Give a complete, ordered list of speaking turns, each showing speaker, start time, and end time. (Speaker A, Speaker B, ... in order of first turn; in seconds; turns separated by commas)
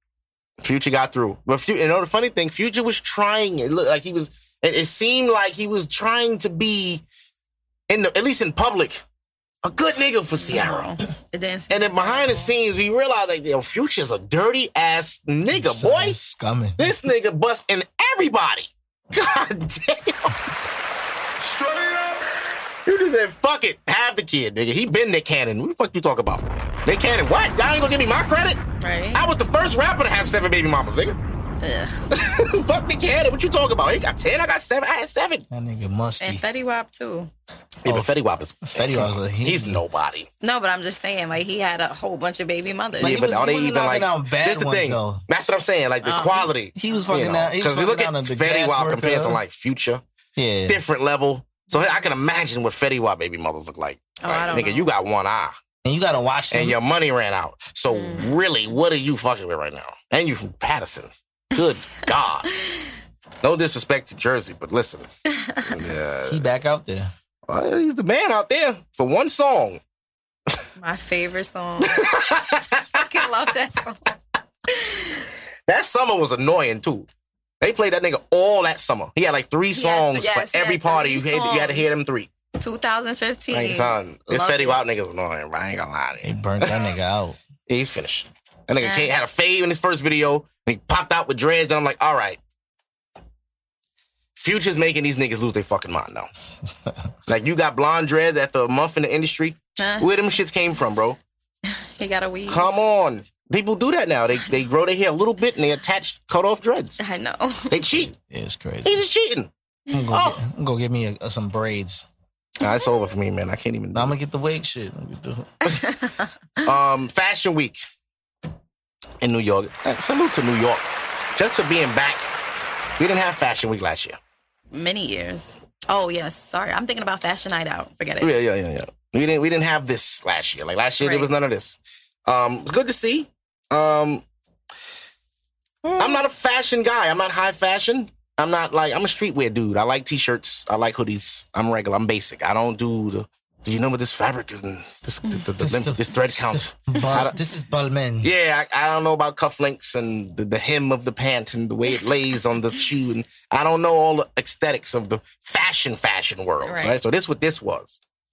Speaker A: 0.6-7.0, Speaker A: 7.9-9.0, Speaker A: 9.6-10.9, Speaker B: 10.4-12.5, Speaker A: 11.7-16.2, Speaker C: 15.5-17.1, Speaker A: 16.8-20.4, Speaker A: 22.9-28.6, Speaker B: 28.8-29.3, Speaker A: 29.1-31.2, Speaker B: 31.6-32.0, Speaker A: 32.1-35.5, Speaker C: 35.5-36.4, Speaker B: 36.2-37.3, Speaker A: 37.8-40.3, Speaker C: 37.9-38.1, Speaker C: 38.7-39.8, Speaker B: 40.4-43.3, Speaker C: 43.0-45.2, Speaker A: 43.0-50.0, Speaker B: 46.0-47.1, Speaker C: 46.8-49.4, Speaker C: 50.4-50.8, Speaker A: 50.7-55.5, Speaker B: 51.7-52.1, Speaker B: 54.2-54.9, Speaker C: 55.8-56.8, Speaker A: 56.5-62.5, Speaker B: 57.9-58.3, Speaker A: 63.4-65.1, Speaker B: 65.3-65.7, Speaker A: 65.6-66.5, Speaker C: 66.3-67.1, Speaker A: 67.5-69.8, Speaker B: 70.8-74.0, Speaker A: 71.8-73.1, Speaker A: 75.7-77.1, Speaker A: 77.6-82.3, Speaker B: 79.7-81.9, Speaker B: 82.6-84.8, Speaker A: 83.5-86.9, Speaker C: 86.2-87.4, Speaker A: 87.7-92.4, Speaker B: 88.8-89.1, Speaker A: 94.3-96.3, Speaker C: 96.7-97.0, Speaker A: 97.3-101.2, Speaker B: 99.8-100.1, Speaker B: 101.7-102.7, Speaker A: 102.5-107.0, Speaker B: 107.0-107.9, Speaker A: 107.7-108.1, Speaker C: 108.1-109.0, Speaker A: 108.8-109.5, Speaker C: 109.9-112.1, Speaker A: 110.1-110.4, Speaker A: 112.6-114.2, Speaker B: 112.6-113.1, Speaker C: 113.9-115.8, Speaker B: 115.7-116.3, Speaker A: 116.6-117.8, Speaker A: 119.2-122.3, Speaker A: 123.0-124.2, Speaker B: 124.7-128.3, Speaker A: 128.2-134.2, Speaker B: 131.0-131.3, Speaker A: 135.9-147.4, Speaker B: 135.9-136.2, Speaker C: 145.6-148.3, Speaker A: 148.2-158.0, Speaker B: 156.6-157.0